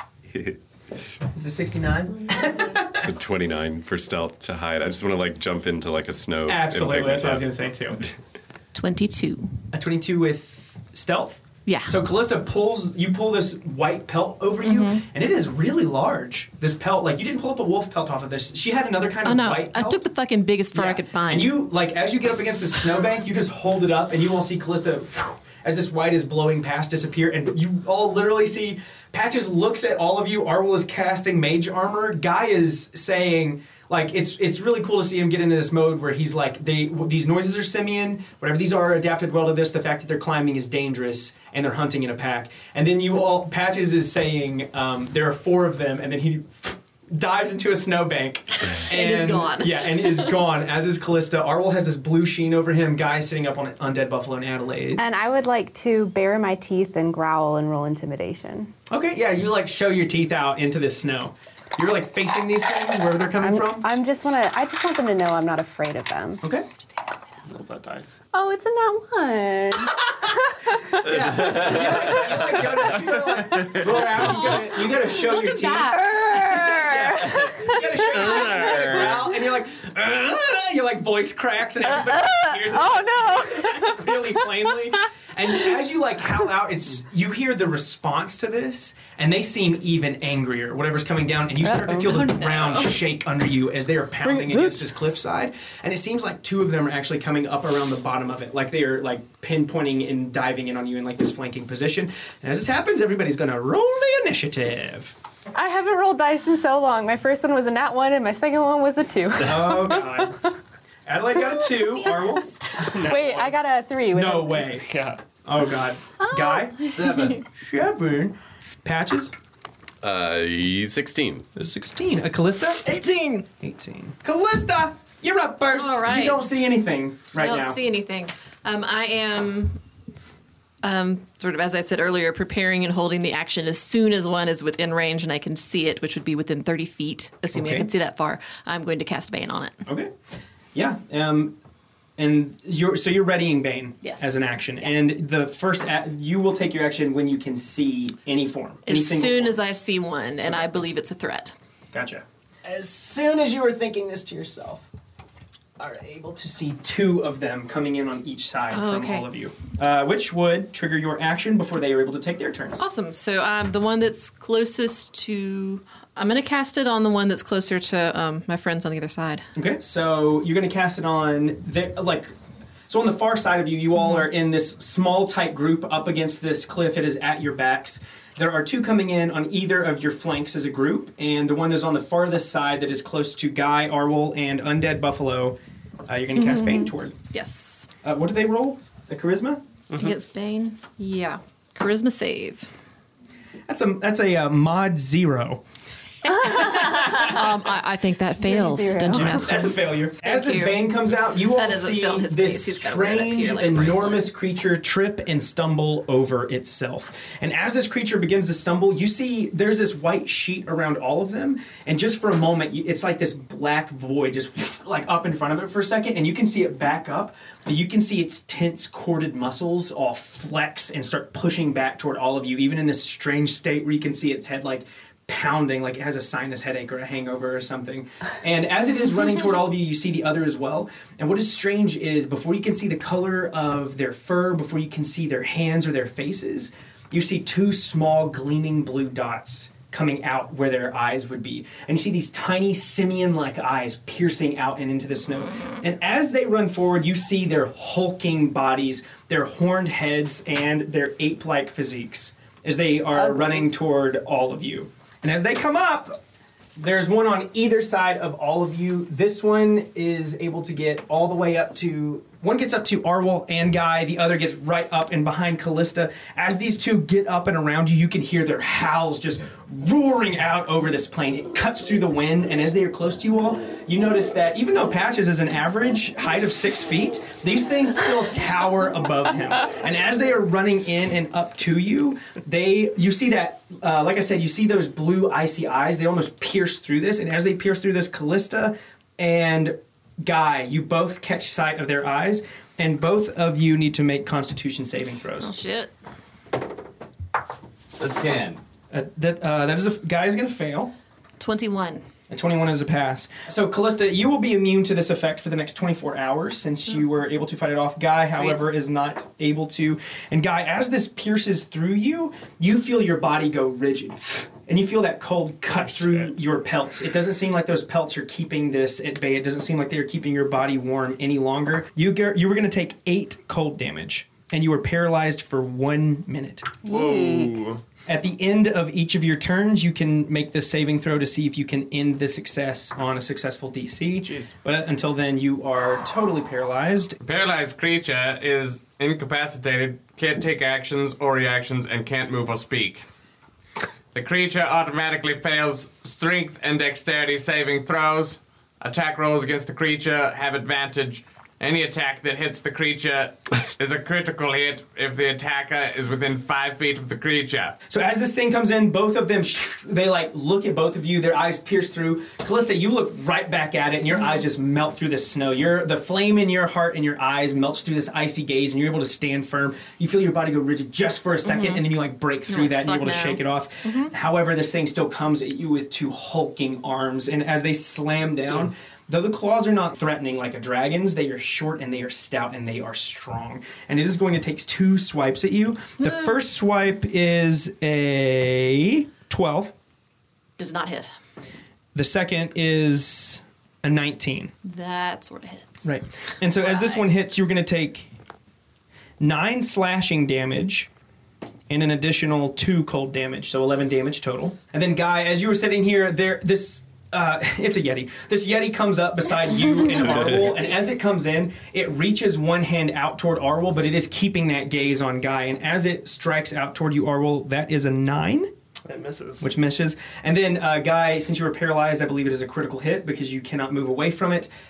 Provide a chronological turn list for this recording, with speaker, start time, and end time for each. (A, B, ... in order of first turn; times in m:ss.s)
0:00.3-0:00.6 A
0:01.4-0:03.1 B
0:03.0-0:08.1 A
0:06.5-0:08.0 B
0:08.7-0:09.5 C
0:09.7-0:20.0 B
0:11.7-0:12.0 C
0:14.6-0:15.0 C
0:19.2-0:21.6 C
0:20.7-0:55.0 B
0:48.8-0:50.3 C
0:55.0-0:58.7 D
0:58.9-1:03.9 B
1:03.4-1:06.4 D
1:07.5-1:08.2 E
1:08.3-1:11.0 D
1:11.0-1:45.2 B
1:11.1-1:12.7 A
1:13.4-1:13.9 E
1:14.1-1:16.1 C
1:15.3-1:19.0 D
1:18.7-1:19.2 A
1:22.0-1:24.4 D
1:31.6-1:32.1 D
1:32.0-1:33.0 C
1:34.3-1:34.8 D
1:45.5-1:50.3 D
1:49.4-1:50.4 B
1:51.1-1:53.2 B
1:51.5-1:54.7 D
1:52.8-1:53.6 E
1:54.1-1:54.9 B
1:54.8-1:55.2 E
1:55.4-1:59.3 B
1:56.4-1:56.7 D
1:57.0-1:57.4 F
2:00.0-2:01.5 A
2:01.6-2:07.8 B
2:03.0-2:03.4 C
2:05.7-2:06.4 C
2:07.4-2:09.8 C
2:10.8-2:19.8 C
2:17.5-2:17.9 B
2:19.9-2:20.1 B
2:20.7-2:21.6 B
2:22.2-2:29.6 B
2:24.0-2:24.9 C
2:28.9-2:31.6 C
2:31.9-2:34.9 B
2:35.8-2:42.8 B
2:38.7-2:39.3 C
2:42.8-2:49.4 C
2:49.6-2:52.3 B
2:52.9-3:07.1 B
3:06.4-3:07.9 C
3:08.0-3:09.6 B
3:09.9-3:12.7 C
3:13.7-3:15.6 B
3:16.2-3:20.9 C
3:16.5-3:17.4 B
3:18.4-3:19.5 D
3:19.1-4:16.2 B
3:21.5-3:24.3 C
4:16.8-4:55.5 B
4:55.4-4:55.9 C
4:58.0-4:58.6 F
4:58.9-5:00.9 B
5:01.4-5:02.0 C
5:02.3-5:26.7 B
5:08.3-5:08.6 C
5:15.9-5:16.3 E
5:26.8-5:27.6 D
5:26.9-5:27.8 E
5:28.1-5:37.2 B
5:37.2-5:43.0 F
5:44.1-5:57.8 F
5:57.9-6:29.7 B
6:11.4-6:11.9 C
6:12.5-6:14.1 C
6:30.6-6:31.1 C
6:32.0-6:34.5 B
6:34.6-6:37.1 C
6:35.8-6:38.1 B
6:39.2-6:40.9 B
6:41.7-6:58.5 B
6:50.0-6:50.5 A
6:58.8-6:59.5 E
6:59.4-7:04.5 B